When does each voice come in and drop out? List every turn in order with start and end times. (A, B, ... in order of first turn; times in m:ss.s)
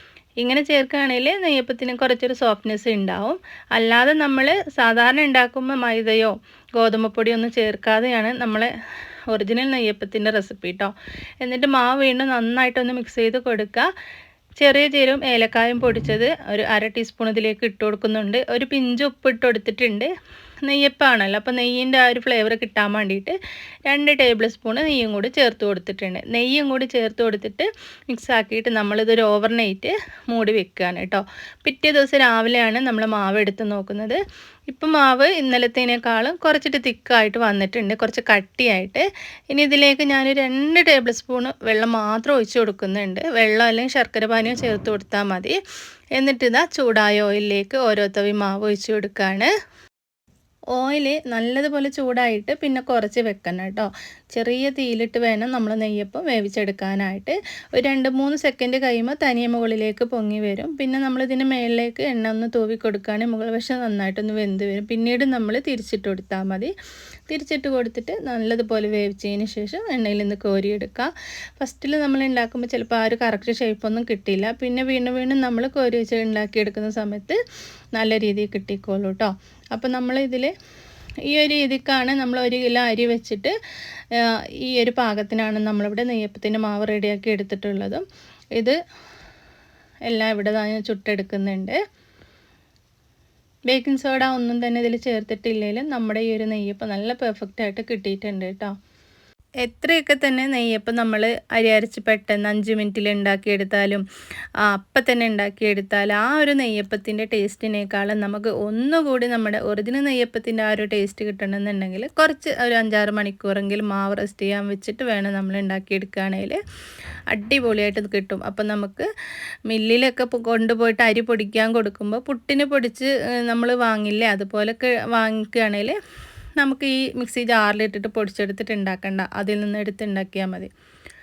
0:00.4-0:08.7 A
0:09.3-0:13.9 A
0:14.6-0:20.1 A
0:20.7-0:23.4 A
0:23.9-0:45.6 A
0:46.2-0:49.5 A
0:50.8-1:06.7 A
1:07.3-1:17.4 A
1:18.0-1:20.5 A
1:21.3-1:23.6 A
1:24.1-1:28.0 A
1:30.1-1:31.8 A
1:33.7-1:38.7 A
1:39.6-1:44.0 A
1:44.6-1:56.6 A
1:57.3-1:59.1 A
1:59.7-2:06.0 A
2:06.6-2:10.7 A